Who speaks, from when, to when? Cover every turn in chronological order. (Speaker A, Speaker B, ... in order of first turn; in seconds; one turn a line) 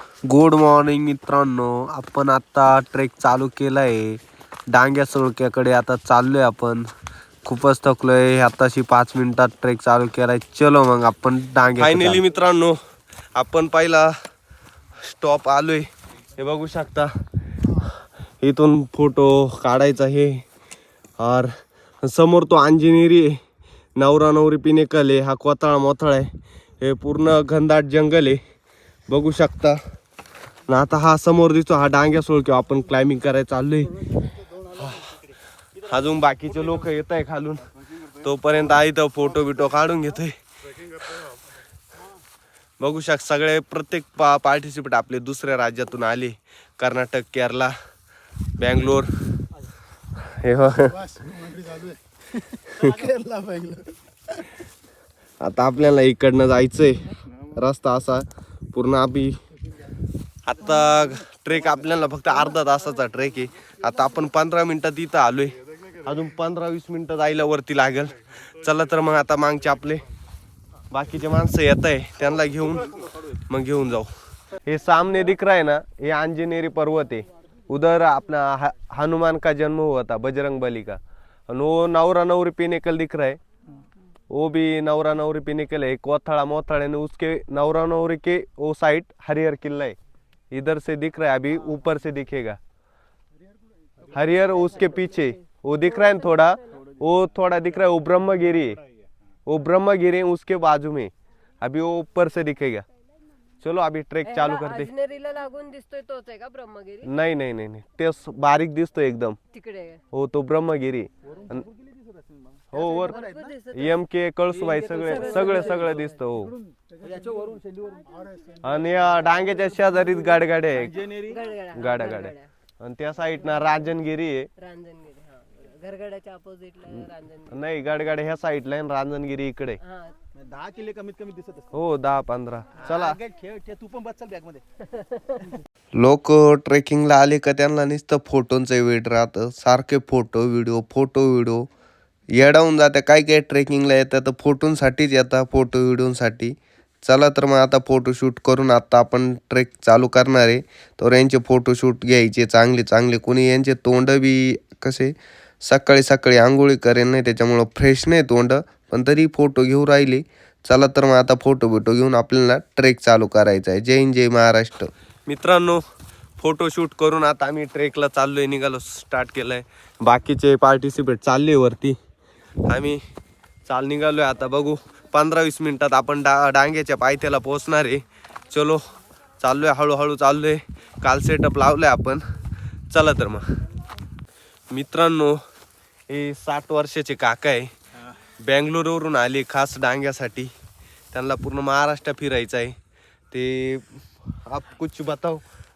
Speaker A: 0.2-4.2
Speaker A: 4.7-6.8
Speaker A: 7.4-12.8
Speaker A: 13.3-14.1
Speaker A: 15.1-15.8
Speaker A: 16.4-17.1
Speaker A: 18.4-20.4
Speaker A: 21.2-21.5
Speaker A: 22.0-23.4
Speaker A: 23.9-26.3
Speaker A: 26.8-28.4
Speaker A: 29.1-29.8
Speaker A: 30.7-34.0
Speaker A: 34.7-35.0
Speaker A: 35.8-40.3
Speaker A: 42.8-47.7
Speaker A: 48.6-49.1
Speaker A: 50.2-51.0
Speaker A: 52.8-53.0
Speaker A: 55.4-59.3
Speaker A: 60.4-70.0
Speaker A: 70.9-74.1
Speaker A: 74.6-83.4
Speaker A: 84.3-90.0
Speaker A: 90.5-92.6
Speaker A: 94.1-98.8
Speaker B: 94.5-96.8
Speaker A: 99.5-102.8
Speaker A: 103.6-104.9
Speaker B: 104.2-107.1
Speaker A: 107.0-109.4
Speaker B: 109.5-110.0
Speaker A: 110.1-111.7
Speaker A: 112.7-113.2
Speaker B: 112.8-114.0
Speaker A: 113.7-116.5
Speaker B: 114.6-116.2
Speaker C: 117.0-118.0
Speaker A: 118.6-120.9
Speaker C: 120.8-121.3
Speaker B: 121.1-122.5
Speaker A: 121.7-124.5
Speaker B: 123.4-123.7
Speaker B: 124.6-127.5
Speaker A: 127.5-129.8
Speaker B: 129.8-130.1
Speaker C: 130.4-131.7
Speaker A: 131.7-133.2
Speaker C: 132.8-134.6
Speaker A: 135.9-141.7
Speaker A: 142.3-165.8
Speaker A: 166.4-171.9
Speaker A: 172.7-173.0
Speaker A: 173.7-178.8
Speaker A: 179.4-182.2
Speaker A: 182.9-183.4
Speaker A: 184.7-185.3
Speaker A: 186.1-187.7
Speaker A: 188.4-190.5
Speaker A: 191.1-192.7
Speaker A: 193.3-193.9
Speaker A: 194.4-195.4